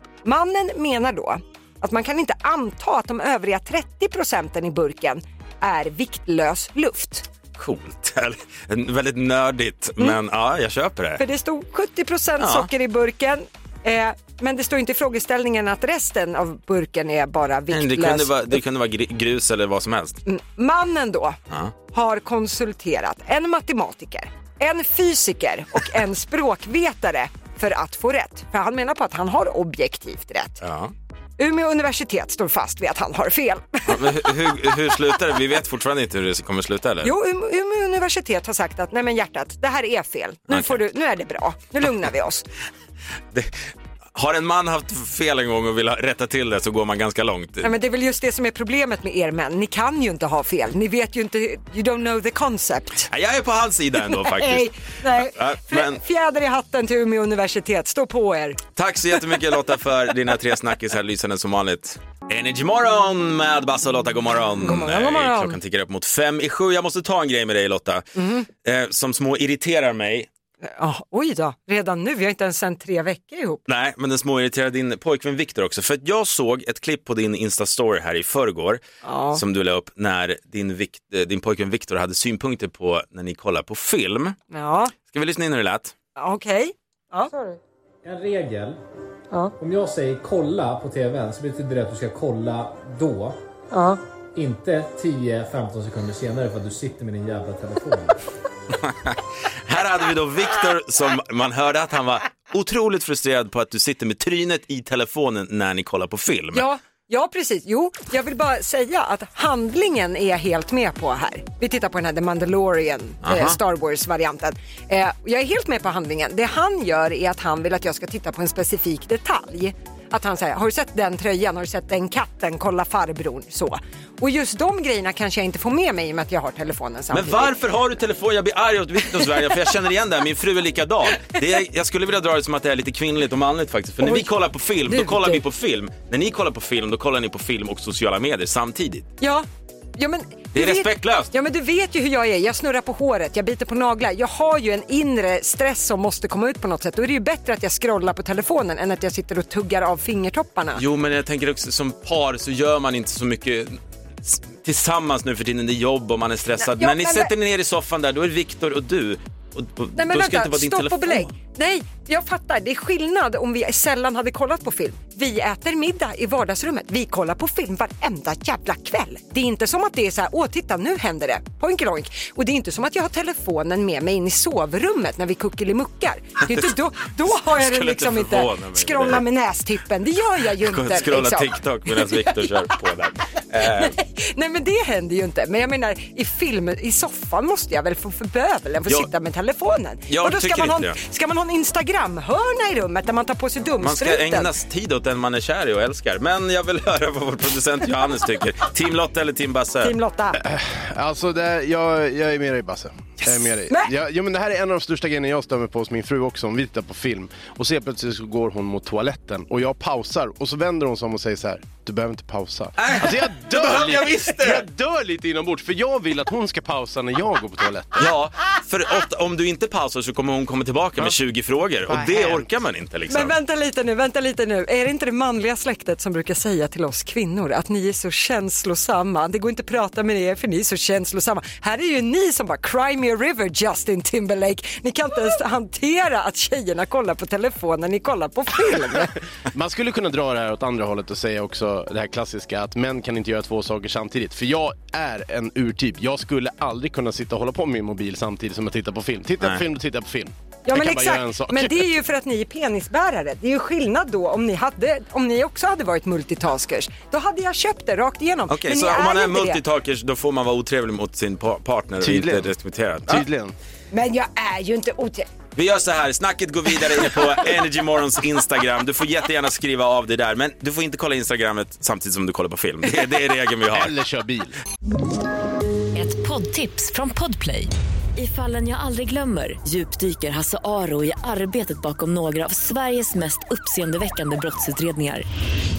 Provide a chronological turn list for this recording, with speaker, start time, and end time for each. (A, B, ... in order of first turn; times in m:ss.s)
0:00.2-0:07.3 A
0:07.6-0:11.2 B
0:11.2-0:18.6 A
0:12.4-0:12.7 B
0:17.7-0:20.2 B
0:20.3-0:21.4 A
0:21.9-0:30.6 A
0:30.6-0:30.9 B
0:31.4-0:34.3 A
0:33.9-0:37.1 B
0:37.0-0:42.4 A
0:40.5-0:40.8 B
0:43.3-0:47.7 B
0:47.6-0:53.1 A
0:53.1-0:56.0 B
0:54.1-0:58.6 A
0:58.8-1:08.1 B
1:04.6-1:05.6 A
1:08.2-1:08.5 A
1:08.6-1:10.3 B
1:10.6-1:13.6 A
1:13.7-1:18.8 B
1:19.0-1:19.4 A
1:19.3-1:24.4 B
1:24.5-1:24.9 A
1:25.1-1:25.9 B
1:26.2-1:27.4 A
1:28.0-1:28.8 C
1:29.6-1:33.4 C
1:33.7-1:34.0 A
1:34.4-1:38.2 C
1:38.8-1:46.6 B
1:46.5-2:07.6 A
1:53.2-1:53.6 B
2:07.1-2:19.1 B
2:14.0-2:14.3 A
2:14.9-2:15.4 A
2:19.2-2:19.5 A
2:20.0-2:30.8 A
2:20.6-2:21.3 B
2:30.8-2:41.3 B
2:36.6-2:37.3 A
2:40.0-3:02.5 A
2:56.4-2:59.2 B
3:00.6-3:04.0 B
3:03.6-3:14.5 A
3:10.1-3:11.0 B
3:13.8-3:20.0 B
3:19.8-3:20.4 A
3:20.4-3:38.1 D
3:32.8-3:34.7 B
3:38.0-3:43.4 B
3:41.9-3:42.5 D
3:43.1-3:59.1 A
3:59.5-4:11.8 D
4:10.7-4:19.6 A
4:18.5-4:23.3 B
4:22.0-4:22.5 D
4:23.1-4:23.6 D
4:23.9-4:25.3 A
4:25.6-4:33.9 B
4:33.7-4:34.5 D
4:36.0-4:45.3 E